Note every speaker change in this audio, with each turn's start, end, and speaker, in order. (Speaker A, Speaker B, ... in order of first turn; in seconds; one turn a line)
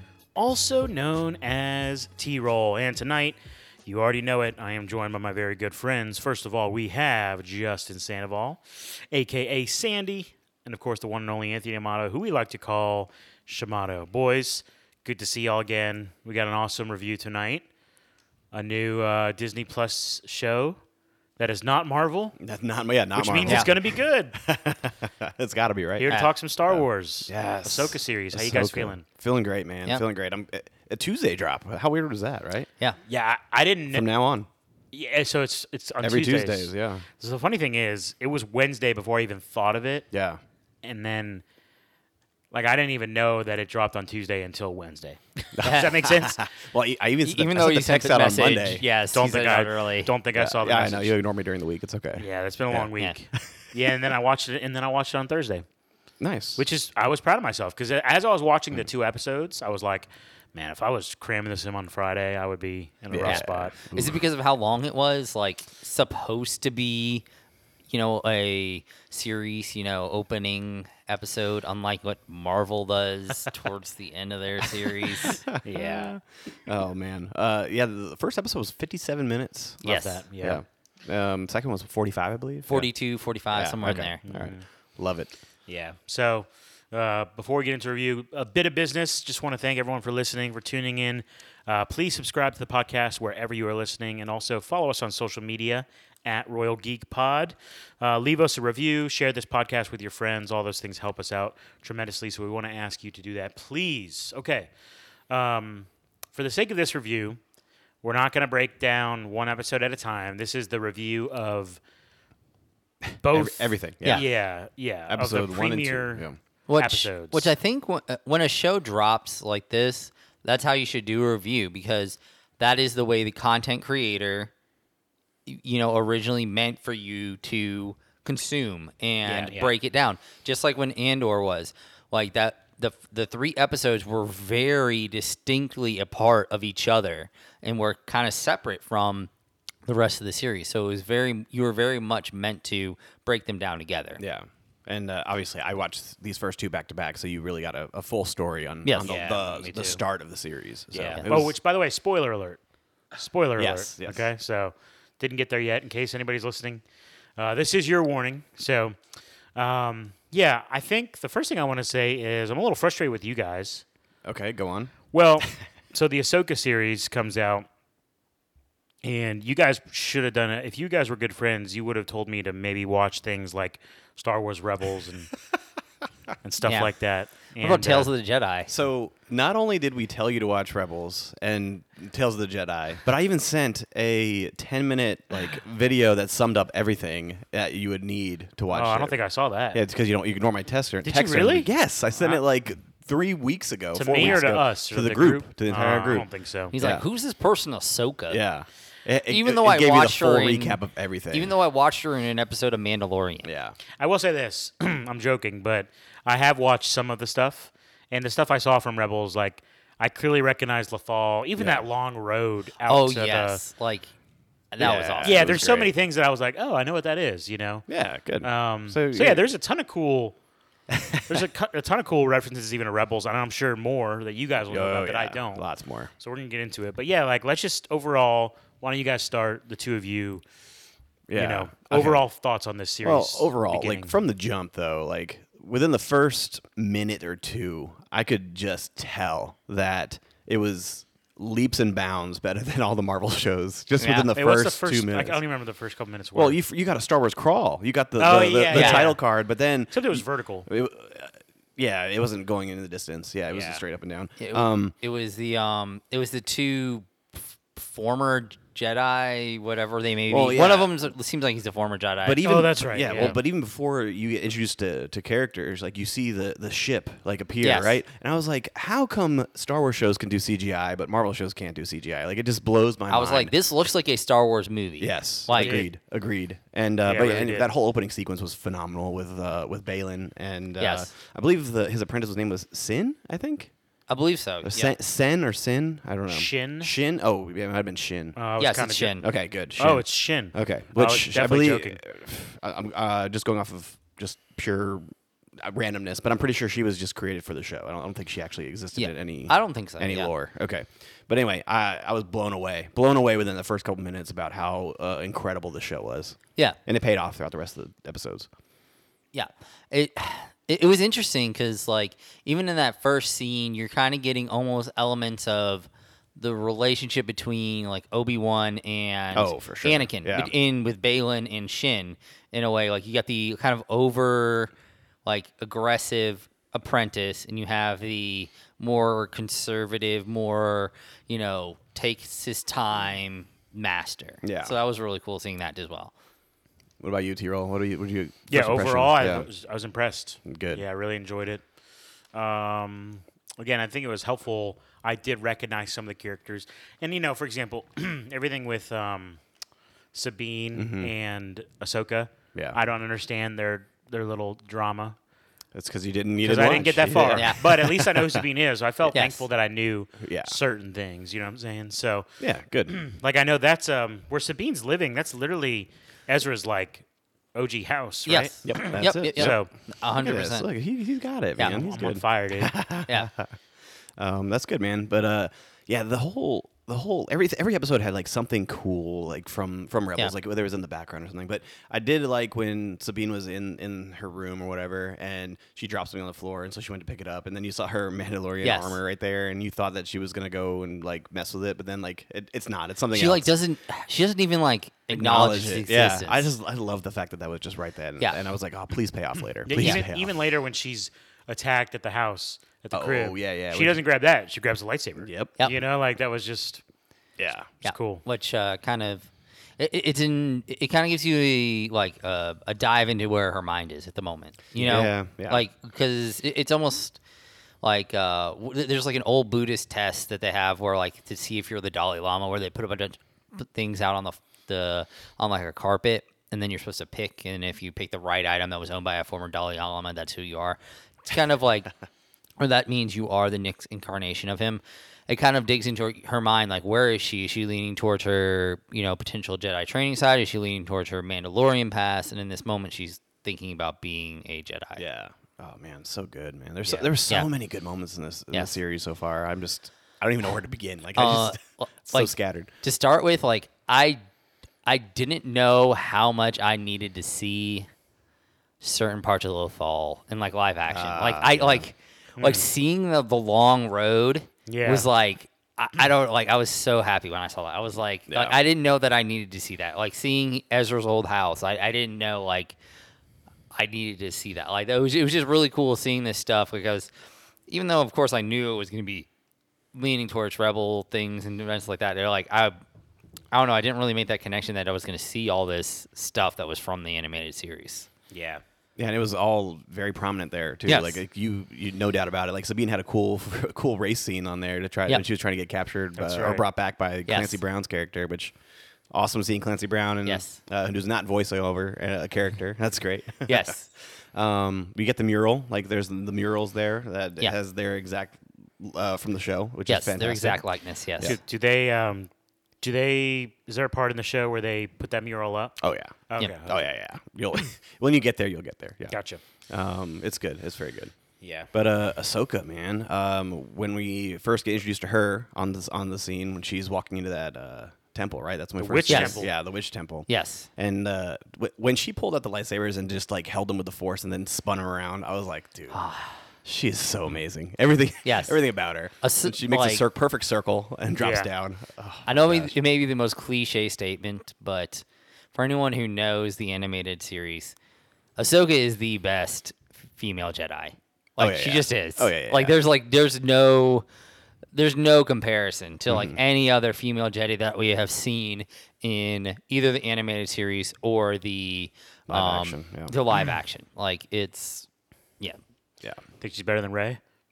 Speaker A: 0.3-17.6
Speaker A: 18.5-20.8
Speaker A: 21.4-22.4
Speaker B: 22.4-32.7
Speaker A: 23.1-24.4
Speaker C: 23.4-23.7
Speaker A: 26.0-29.0
Speaker A: 33.1-34.1
Speaker B: 33.9-34.5
Speaker A: 34.9-40.0
Speaker B: 36.0-37.0
Speaker B: 40.1-40.4
Speaker A: 40.8-41.4
Speaker A: 42.5-46.4
Speaker B: 45.5-48.8
Speaker C: 45.6-45.9
Speaker C: 47.2-50.1
Speaker A: 49.1-51.1
Speaker B: 50.3-52.9
Speaker A: 52.2-55.6
Speaker B: 56.2-56.6
Speaker A: 56.6-63.8
Speaker B: 63.1-64.2
Speaker C: 63.2-67.2
Speaker C: 67.9-75.4
Speaker B: 74.8-79.8
Speaker A: 75.6-76.1
Speaker A: 79.8-80.6
Speaker C: 79.8-80.2
Speaker B: 80.4-82.9
Speaker C: 82.7-84.2
Speaker B: 83.5-85.3
Speaker A: 84.2-84.6
Speaker A: 85.7-104.7
Speaker A: 105.3-107.4
Speaker A: 108.0-111.8
Speaker B: 113.0-114.3
Speaker A: 113.2-117.5
Speaker B: 115.1-116.3
Speaker C: 116.7-124.5
Speaker C: 125.5-139.3
Speaker A: 129.2-129.7
Speaker C: 139.8-144.2
Speaker B: 144.2-151.6
Speaker C: 148.8-149.2
Speaker A: 149.0-150.0
Speaker A: 150.9-152.6
Speaker C: 150.9-151.3
Speaker A: 153.1-156.8
Speaker B: 153.6-154.3
Speaker A: 157.4-158.9
Speaker A: 159.5-163.8
Speaker B: 164.2-164.9
Speaker A: 165.1-167.7
Speaker A: 169.0-175.3
Speaker A: 176.4-178.1
Speaker C: 176.6-176.9
Speaker C: 177.6-178.7
Speaker B: 178.7-189.1
Speaker A: 188.7-189.8
Speaker B: 189.7-197.0
Speaker A: 191.0-192.4
Speaker A: 193.9-196.7
Speaker C: 196.7-198.4
Speaker B: 198.3-201.5
Speaker C: 199.3-200.8
Speaker C: 201.3-203.5
Speaker B: 203.4-203.8
Speaker A: 204.0-213.6
Speaker B: 211.6-211.8
Speaker C: 212.8-214.1
Speaker C: 214.7-215.4
Speaker B: 214.8-215.9
Speaker A: 215.2-217.8
Speaker B: 217.9-219.4
Speaker A: 218.4-220.3
Speaker B: 220.9-221.5
Speaker A: 221.3-225.6
Speaker B: 224.6-226.1
Speaker A: 226.2-230.4
Speaker B: 231.3-232.2
Speaker A: 231.3-234.1
Speaker B: 233.0-245.4
Speaker C: 244.0-244.3
Speaker A: 244.3-246.6
Speaker B: 246.3-254.9
Speaker A: 248.2-249.2
Speaker C: 248.7-249.1
Speaker A: 249.9-250.7
Speaker A: 253.5-253.8
Speaker C: 254.4-263.4
Speaker B: 260.3-260.9
Speaker B: 262.2-273.5
Speaker A: 262.4-263.3
Speaker C: 267.6-268.0
Speaker C: 273.1-275.9
Speaker B: 275.0-283.7
Speaker A: 275.6-275.9
Speaker A: 277.1-277.7
Speaker C: 280.8-281.1
Speaker C: 284.1-284.9
Speaker B: 284.6-288.4
Speaker A: 286.3-286.9
Speaker A: 288.4-289.2
Speaker C: 288.6-289.2
Speaker B: 289.2-295.0
Speaker A: 289.8-292.0
Speaker B: 295.6-308.5
Speaker C: 298.9-300.3
Speaker C: 309.3-324.7
Speaker B: 319.3-320.5
Speaker C: 325.2-336.1
Speaker B: 334.4-334.7
Speaker B: 337.0-339.5
Speaker A: 338.5-341.6
Speaker B: 340.4-340.8
Speaker A: 342.3-349.4
Speaker A: 350.1-355.2
Speaker B: 350.7-351.1
Speaker B: 355.7-358.4
Speaker A: 356.4-362.3
Speaker C: 357.3-357.6
Speaker C: 359.1-359.4
Speaker B: 360.2-360.6
Speaker B: 362.4-363.0
Speaker A: 362.9-367.0
Speaker A: 367.5-369.7
Speaker C: 368.2-370.7
Speaker B: 368.6-373.5
Speaker A: 371.6-372.8
Speaker B: 374.2-393.5
Speaker C: 388.6-389.0
Speaker C: 393.1-396.5
Speaker B: 395.1-400.4
Speaker A: 399.6-406.8
Speaker C: 399.7-400.0
Speaker B: 402.9-404.0
Speaker B: 405.2-405.5
Speaker B: 407.4-407.7
Speaker A: 407.8-408.2
Speaker C: 407.8-409.3
Speaker C: 409.8-417.2
Speaker B: 414.7-415.6
Speaker C: 417.8-431.9
Speaker C: 432.6-445.0
Speaker B: 445.0-452.7
Speaker C: 446.9-447.5
Speaker C: 451.1-454.2
Speaker C: 454.8-457.9
Speaker C: 458.8-472.8
Speaker B: 460.9-461.8
Speaker A: 462.4-462.6
Speaker A: 464.7-465.1
Speaker B: 468.3-468.6
Speaker C: 473.7-477.1
Speaker C: 477.7-479.3
Speaker C: 479.9-482.7
Speaker C: 483.5-488.1
Speaker A: 488.3-488.6
Speaker B: 489.0-498.5
Speaker C: 490.9-491.2
Speaker A: 496.2-496.6
Speaker C: 497.3-497.6
Speaker B: 499.1-510.6
Speaker C: 500.2-500.6
Speaker C: 503.5-503.9
Speaker C: 509.9-511.4
Speaker A: 511.2-512.3
Speaker A: 512.8-515.8
Speaker B: 515.8-519.1
Speaker A: 516.3-516.8
Speaker A: 519.1-519.4
Speaker B: 519.7-521.1
Speaker A: 521.4-521.7
Speaker B: 521.7-536.0
Speaker A: 528.8-529.5
Speaker C: 529.1-529.5
Speaker C: 530.3-530.7
Speaker C: 535.9-536.4
Speaker B: 536.6-542.7
Speaker C: 538.2-538.6
Speaker C: 539.2-540.0
Speaker A: 541.2-541.5
Speaker C: 542.3-547.7
Speaker C: 548.4-554.0
Speaker B: 551.4-552.8
Speaker C: 554.7-564.9
Speaker B: 556.1-556.4
Speaker B: 562.3-563.1
Speaker A: 566.4-567.2